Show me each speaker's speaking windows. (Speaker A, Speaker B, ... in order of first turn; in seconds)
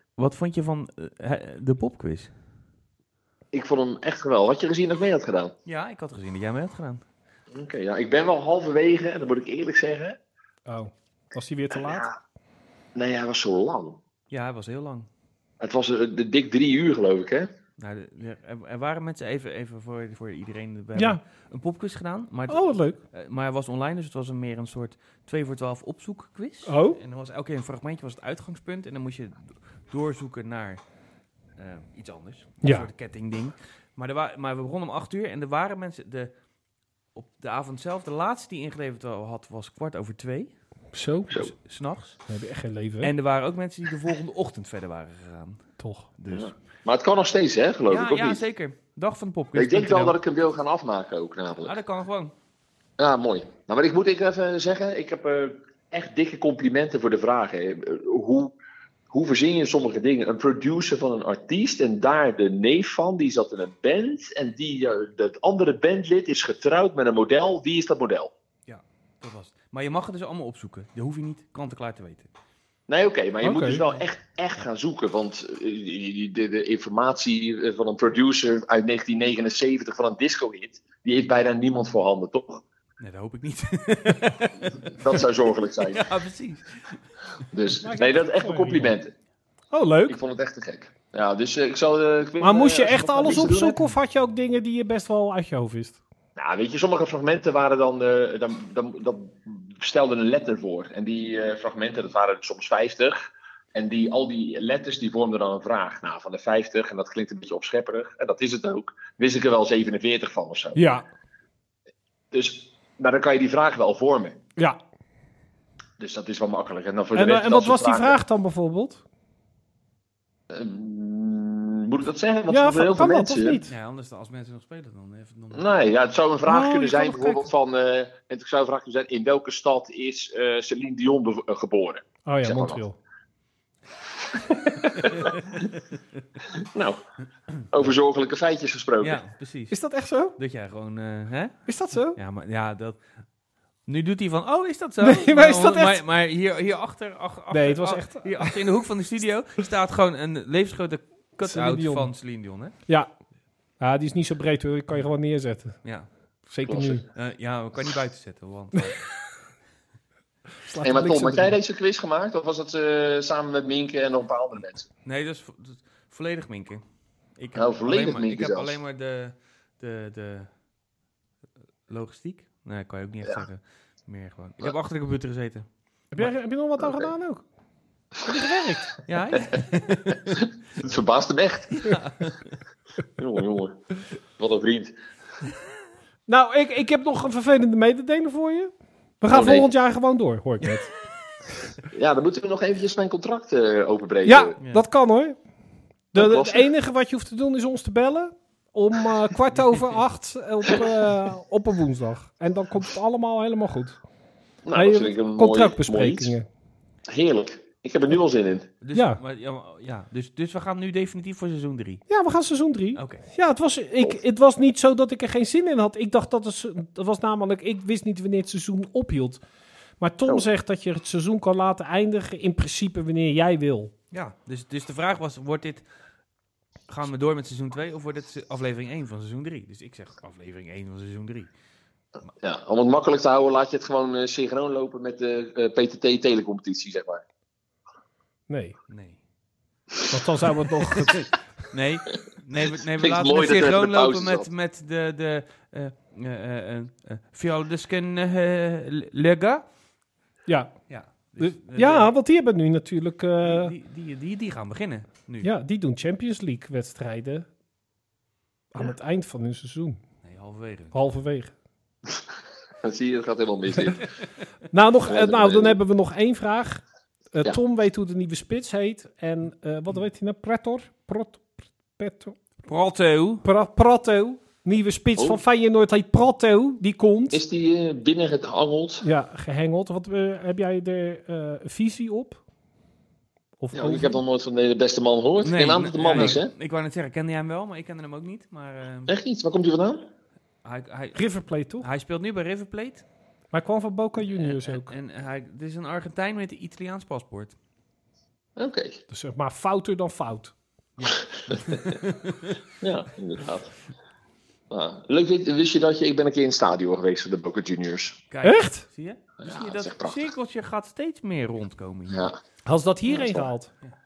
Speaker A: 0.2-2.3, 5.7-7.0, 14.3-15.1, 17.8-30.8, 31.6-36.3, 37.1-40.5, 41.4-42.2, 43.0-45.6, 46.2-46.5, 47.9-50.2, 51.6-52.3, 68.7-72.3, 83.0-85.2, 85.8-87.0, 123.7-125.7, 139.0-139.8, 140.4-143.0, 143.9-152.7, 155.8-156.1, 157.1-159.0, 165.1-166.8, 167.4-170.5, 171.9-175.7, 179.1-180.4, 181.7-182.6, 194.6-194.9, 199.7-200.0, 208.8-212.0, 212.9-213.2, 224.1-225.9, 226.9-231.5, 238.9-239.2, 241.7-249.7, 250.9-252.1, 253.4-255.5, 260.2-261.0, 272.6-273.4, 285.4-289.1, 290.6-291.2, 291.8-293.1, 294.2-297.6, 301.0-302.6, 308.3-312.3
Speaker B: 3.5-5.5, 7.5-10.2, 11.7-12.2, 12.9-14.0, 15.6-17.5, 46.3-48.4, 49.5-51.8, 53.0-58.5, 59.1-68.3, 72.9-82.6, 84.9-86.1, 87.5-89.1, 90.1-93.8, 96.4-103.2, 103.7-110.8, 112.3-114.4, 116.0-118.2, 120.5-123.6, 125.5-132.8, 134.3-135.5, 136.7-137.0, 137.7-139.2, 156.7-157.1, 160.8-164.9, 167.6-168.8, 180.8-181.9, 183.2-185.0, 189.3-189.7, 191.9-194.6, 196.2-196.7, 204.7-206.3, 207.1-208.7, 232.4-237.2, 243.0-244.5, 262.8-264.1, 265.1-265.8, 277.3-279.1, 283.7-286.5, 289.1-290.1, 298.6-299.0, 301.4-301.8, 302.8-303.8, 304.7-308.2, 309.4-310.3, 312.1-312.4, 313.1-313.5
Speaker C: 10.7-12.1, 20.9-21.2, 22.5-23.0, 26.7-27.0, 32.6-32.9, 40.9-41.4, 42.3-43.1, 45.8-46.1, 73.4-73.8, 87.8-88.9, 89.7-90.2, 92.4-96.0, 110.8-111.1, 117.2-119.0, 122.5-123.7, 126.5-127.5, 132.3-133.0, 139.7-140.4, 141.7-142.2, 145.0-146.0, 147.5-148.6, 151.4-152.1, 153.8-155.8, 156.5-157.1, 160.7-161.6, 176.1-177.4, 178.2-178.9, 186.3-190.9, 194.3-195.4, 196.1-204.0, 204.8-206.5, 208.9-209.2, 212.1-219.4, 220.0-223.9, 238.5-238.8, 240.1-241.3, 250.5-250.7, 251.4-253.7, 255.4-257.5, 258.7-260.0, 260.9-261.5, 264.7-272.4, 273.4-277.4, 279.0-282.4, 283.6-284.2, 286.1-286.4, 291.1-291.9, 293.5-294.9, 299.1-300.5, 308.4-308.8, 312.7-313.7